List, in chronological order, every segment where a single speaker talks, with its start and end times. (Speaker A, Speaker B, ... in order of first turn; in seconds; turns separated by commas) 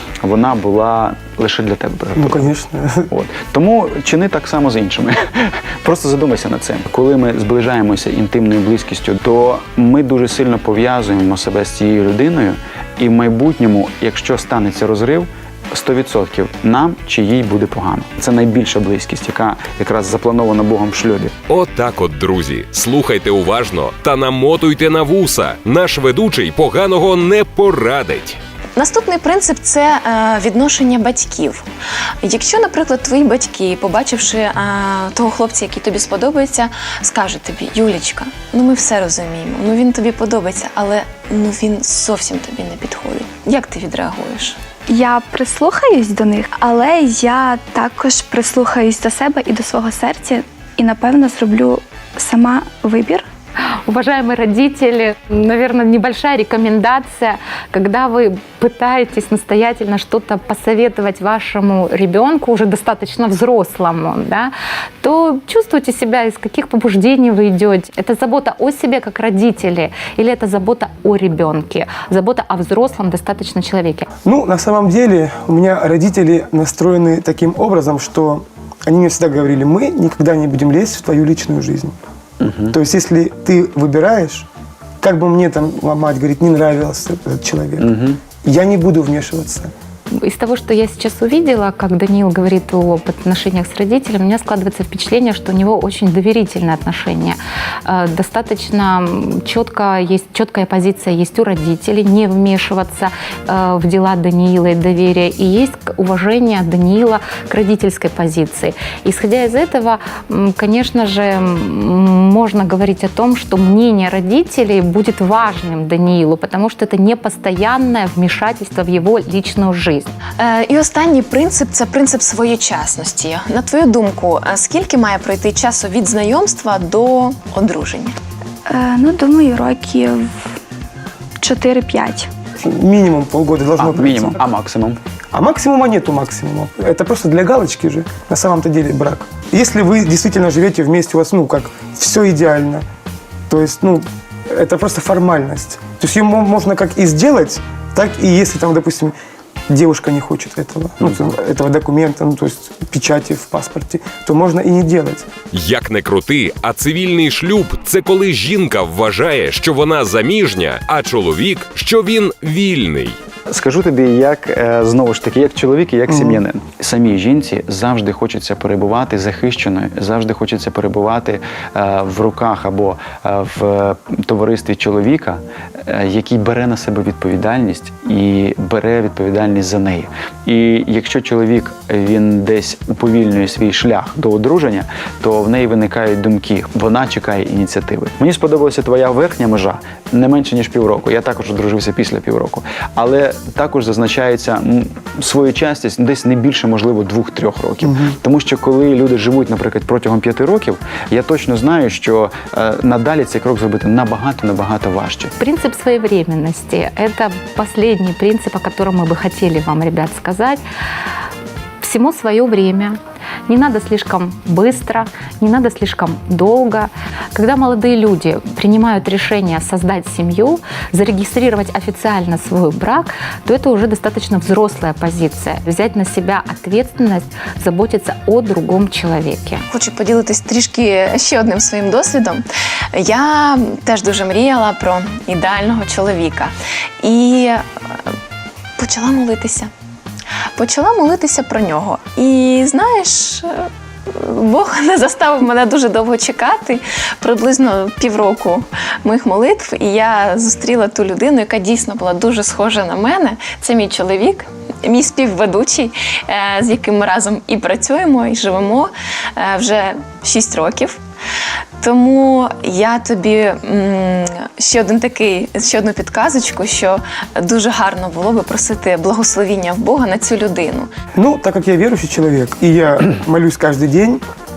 Speaker A: 0.2-2.5, Speaker B: 2.2-3.1, Speaker A: 3.1-21.3, Speaker C: 21.5-28.4, Speaker D: 28.8-31.7, Speaker D: 32.2-44.6, Speaker E: 44.9-53.3, Speaker F: 53.9-74.1, Speaker B: 74.2-82.0, Speaker A: 82.4-82.8, Speaker B: 82.7-84.5, Speaker B: 85.0-89.7, Speaker A: 87.8-88.2, Speaker F: 90.1-120.1, Speaker D: 120.4-128.2, Speaker E: 128.7-130.5, Speaker E: 131.4-132.3, Speaker B: 132.6-134.4, Speaker A: 133.8-135.0, Speaker B: 135.3-142.8, Speaker B: 143.5-149.2, Speaker B: 149.7-155.3, Speaker C: 155.5-163.2, Speaker A: 163.5-205.3, Speaker B: 166.1-166.4, Speaker B: 197.8-198.2, Speaker F: 205.4-210.6, Speaker F: 211.8-229.7, Speaker D: 229.7-238.1, Speaker D: 238.8-239.7, Speaker D: 240.6-261.0, Speaker D: 261.8-270.9, Speaker B: 271.1-274.2